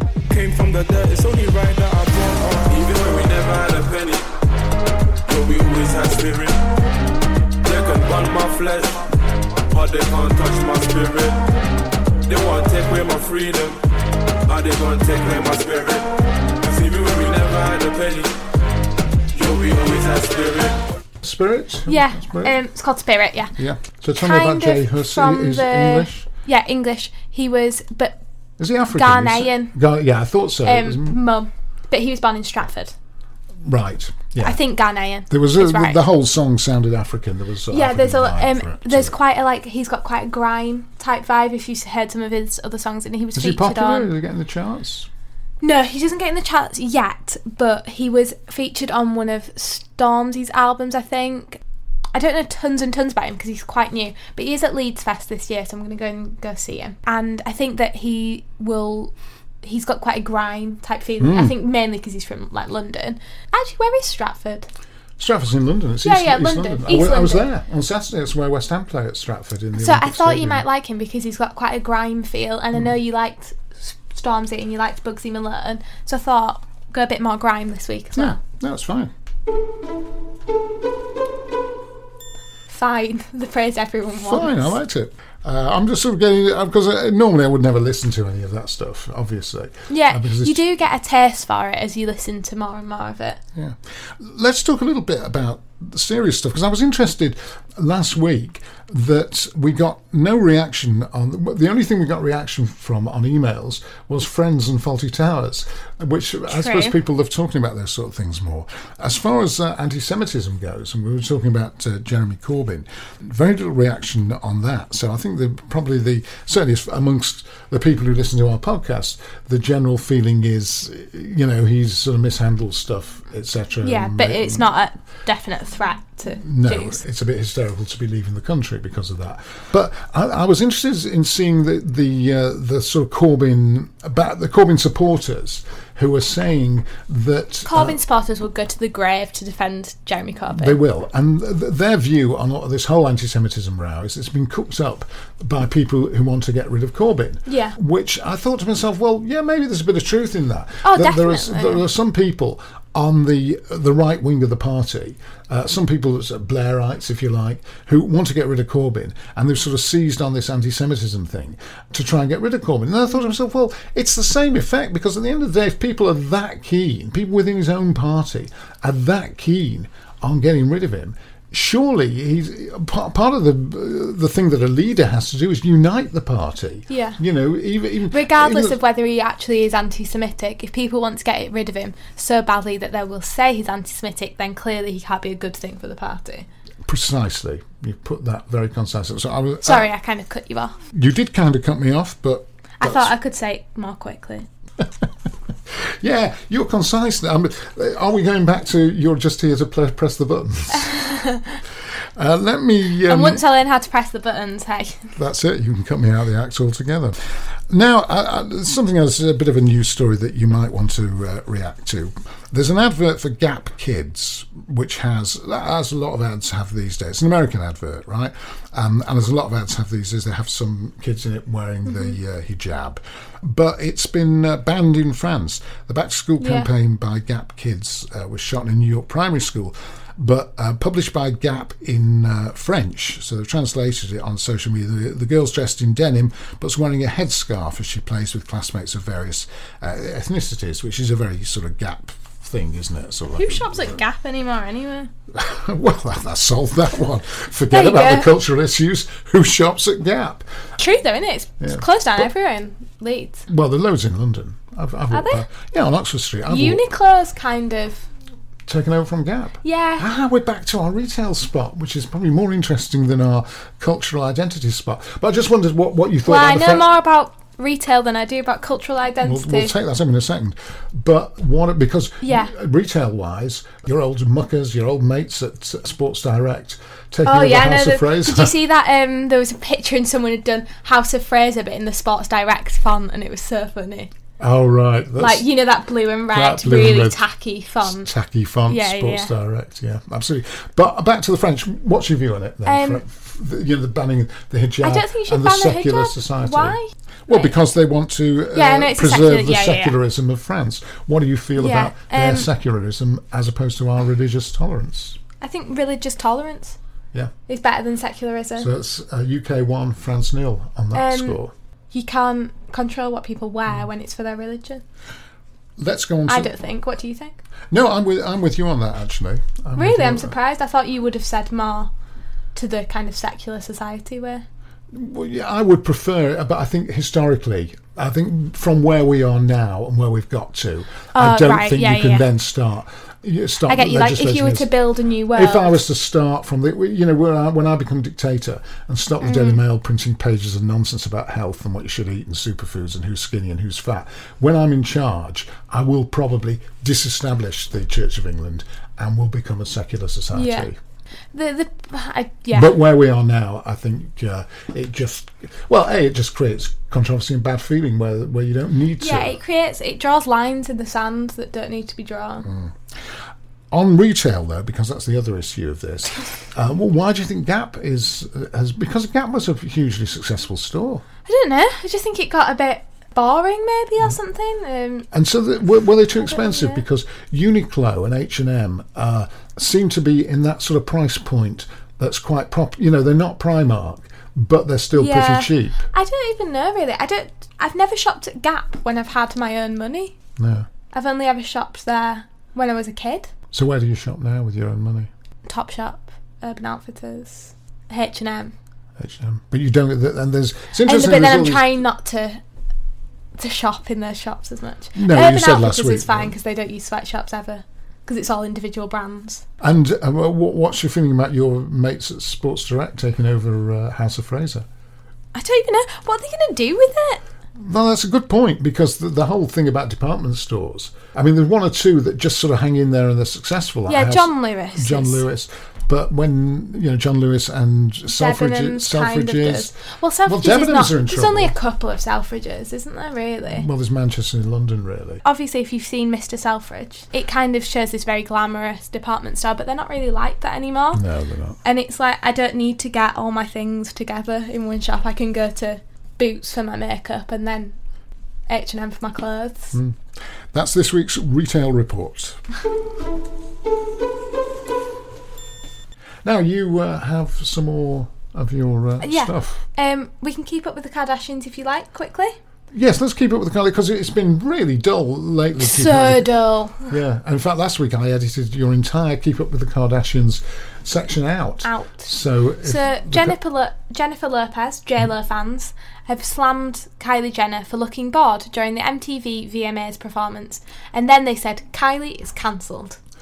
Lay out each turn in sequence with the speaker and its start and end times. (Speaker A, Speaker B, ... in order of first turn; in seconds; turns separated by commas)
Speaker A: 0.3-4.3, Speaker A: 5.3-6.6, Speaker A: 7.6-9.0, Speaker A: 9.7-11.4, Speaker A: 12.3-13.8, Speaker A: 14.4-16.1, Speaker A: 16.6-18.3, Speaker A: 19.3-20.8, Speaker B: 21.2-22.6, Speaker C: 21.9-23.5, Speaker B: 23.6-26.3, Speaker C: 24.2-28.2, Speaker B: 28.6-31.2, Speaker C: 28.9-29.7, Speaker C: 30.6-32.9, Speaker B: 33.6-34.6, Speaker C: 34.4-36.0, Speaker B: 35.3-39.2, Speaker C: 37.7-44.1, Speaker B: 43.4-45.1, Speaker C: 45.6-51.6, Speaker C: 52.1-64.7, Speaker B: 61.2-61.6, Speaker B: 65.2-70.7, Speaker C: 66.0-67.5, Speaker C: 69.8-78.4, Speaker B: 78.2-79.1, Speaker C: 82.7-84.8, Speaker B: 84.2-90.6, Speaker C: 89.9-93.4, Speaker B: 93.5-124.7, Speaker C: 106.5-107.0, Speaker C: 123.8-127.0, Speaker B: 126.3-138.0, Speaker C: 137.7-140.8, Speaker B: 140.5-178.8, Speaker C: 147.5-147.8, Speaker C: 150.8-151.8, Speaker C: 176.9-177.2, Speaker C: 178.1-186.5, Speaker B: 186.8-189.9, Speaker C: 189.6-190.8, Speaker B: 190.9-193.1, Speaker C: 192.8-194.5, Speaker B: 195.7-200.9, Speaker C: 200.7-201.6, Speaker B: 202.2-203.4, Speaker C: 203.1-205.1, Speaker B: 205.2-207.2, Speaker B: 207.7-244.0, Speaker C: 221.9-222.2, Speaker C: 226.4-226.7, Speaker C: 243.3-245.1, Speaker B: 245.3-250.4, Speaker C: 247.7-248.3, Speaker C: 250.8-253.5, Speaker B: 251.6-252.3, Speaker B: 253.5-256.9, Speaker C: 255.1-255.4, Speaker C: 256.5-258.1, Speaker B: 258.7-266.9, Speaker C: 259.6-260.1, Speaker C: 266.2-269.7, Speaker B: 269.2-278.6, Speaker C: 272.2-272.5, Speaker C: 277.2-284.1, Speaker B: 284.4-285.5, Speaker C: 285.2-288.1, Speaker B: 286.3-287.2, Speaker B: 287.8-305.2, Speaker C: 288.7-289.3, Speaker C: 292.6-293.0, Speaker C: 294.8-297.5, Speaker C: 298.5-300.0, Speaker C: 301.6-302.5, Speaker C: 305.4-306.8, Speaker C: 307.5-308.7, Speaker B: 308.6-311.5, Speaker C: 310.9-311.4, Speaker C: 311.9-314.8, Speaker B: 315.8-316.5, Speaker C: 316.3-317.4, Speaker B: 317.7-320.3, Speaker C: 319.8-321.9, Speaker C: 322.6-324.4, Speaker B: 324.9-334.8, Speaker C: 331.1-332.3, Speaker C: 333.7-335.8, Speaker B: 335.3-350.8, Speaker C: 339.2-339.6, Speaker C: 350.3-350.7, Speaker C: 351.3-352.8, Speaker B: 352.5-359.4, Speaker C: 359.0-362.5, Speaker B: 362.4-363.2, Speaker B: 363.7-371.1, Speaker C: 371.3-375.1, Speaker B: 375.1-385.8, Speaker C: 376.2-376.8, Speaker C: 384.9-390.1, Speaker B: 390.4-390.7, Speaker C: 390.9-393.3, Speaker B: 393.5-395.1, Speaker C: 395.5-398.6, Speaker B: 399.0-401.8, Speaker C: 400.8-402.4, Speaker C: 403.4-409.4, Speaker B: 404.9-406.4, Speaker B: 409.6-414.7, Speaker C: 415.4-417.2, Speaker B: 417.6-431.5, Speaker C: 423.9-425.2, Speaker C: 428.2-433.7, Speaker B: 433.5-435.2, Speaker C: 435.2-441.0, Speaker B: 440.9-441.6, Speaker C: 441.6-447.8, Speaker C: 448.5-449.8, Speaker B: 449.7-450.0, Speaker B: 450.5-452.4, Speaker B: 456.2-459.6, Speaker C: 459.0-462.4, Speaker B: 462.7-466.3, Speaker C: 465.6-466.9, Speaker B: 466.9-473.4, Speaker C: 471.6-472.1, Speaker C: 472.6-483.0